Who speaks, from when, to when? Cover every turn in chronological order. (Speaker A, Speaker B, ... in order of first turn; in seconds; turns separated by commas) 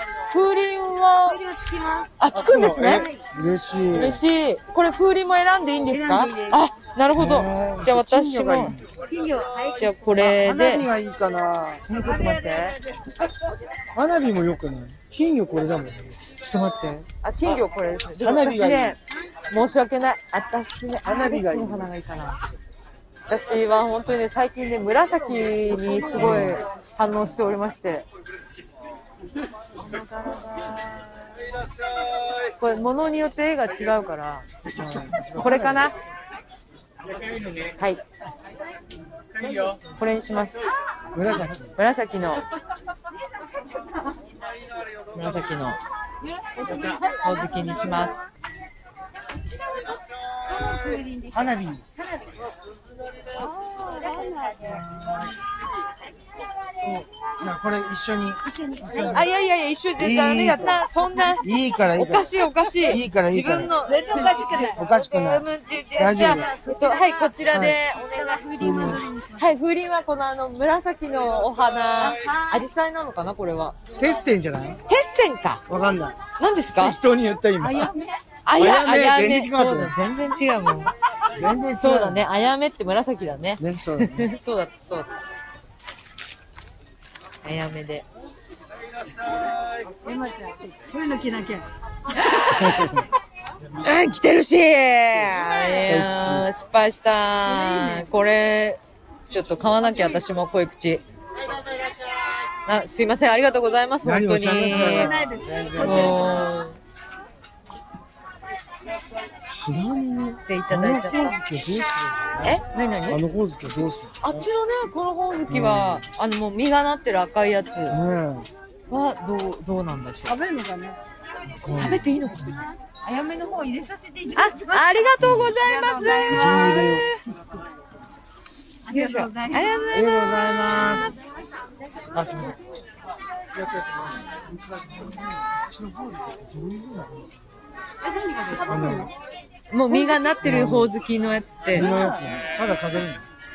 Speaker A: 0.3-1.4, Speaker B: 1.2-2.1, Speaker A: 2.2-3.1, Speaker C: 2.3-4.2, Speaker B: 2.8-3.2, Speaker A: 3.9-8.8, Speaker B: 5.9-6.6, Speaker C: 7.1-8.9, Speaker B: 9.0-11.0, Speaker A: 9.8-10.9, Speaker C: 10.2-11.9, Speaker A: 11.9-12.7, Speaker B: 11.9-12.8, Speaker C: 13.9-16.9, Speaker A: 16.4-19.0, Speaker C: 18.1-19.0, Speaker A: 19.5-22.4, Speaker C: 21.0-21.9, Speaker A: 23.3-28.1, Speaker C: 26.0-26.6, Speaker B: 29.9-31.0, Speaker A: 32.6-34.6, Speaker C: 34.7-35.9, Speaker A: 35.2-36.0, Speaker C: 37.0-37.7, Speaker C: 39.4-39.8, Speaker A: 39.9-40.7, Speaker C: 41.1-41.7, Speaker A: 41.8-42.4, Speaker A: 45.1-45.8, Speaker B: 46.2-48.1, Speaker A: 46.8-48.2, Speaker B: 50.4-52.4, Speaker C: 51.3-51.9, Speaker B: 53.3-54.9, Speaker C: 54.6-55.4, Speaker C: 56.8-59.3, Speaker B: 58.5-59.3, Speaker A: 59.1-73.8, Speaker C: 60.0-63.7, Speaker B: 61.0-61.6, Speaker B: 63.8-64.8, Speaker C: 64.8-65.5, Speaker C: 66.0-66.5, Speaker B: 66.0-69.5, Speaker C: 67.5-67.8, Speaker C: 68.6-69.0, Speaker B: 72.0-72.6, Speaker C: 74.0-74.8, Speaker A: 74.9-75.6, Speaker C: 75.7-76.2, Speaker A: 76.4-77.0, Speaker C: 76.8-77.9, Speaker B: 77.6-78.2, Speaker A: 78.5-80.9, Speaker C: 78.5-79.9, Speaker C: 81.3-82.2, Speaker A: 81.8-85.1, Speaker C: 83.6-84.3, Speaker A: 87.4-88.0, Speaker C: 89.1-89.9, Speaker B: 89.9-91.7, Speaker A: 92.1-93.1, Speaker C: 92.5-93.1, Speaker A: 93.8-101.0, Speaker C: 95.8-96.5, Speaker B: 97.4-98.1, Speaker A: 102.7-105.1, Speaker C: 104.0-106.5, Speaker B: 104.7-106.5, Speaker A: 105.8-106.8, Speaker C: 109.5-114.5, Speaker A: 110.5-111.4, Speaker A: 112.4-113.2, Speaker A: 114.2-118.0, Speaker C: 115.5-116.0, Speaker C: 117.9-118.5, Speaker A: 118.9-120.4, Speaker B: 120.2-121.0, Speaker C: 121.5-122.6, Speaker A: 121.7-122.6, Speaker B: 122.6-127.0, Speaker A: 124.3-127.2, Speaker C: 125.2-125.6, Speaker C: 126.3-127.1, Speaker B: 128.9-131.0, Speaker A: 128.9-131.2, Speaker C: 129.9-131.2, Speaker C: 132.1-132.6, Speaker C: 133.5-137.4, Speaker B: 138.0-139.1, Speaker C: 138.7-139.1, Speaker A: 139.7-141.9, Speaker B: 139.9-140.4, Speaker C: 140.4-140.9, Speaker B: 141.7-142.4, Speaker C: 141.7-143.3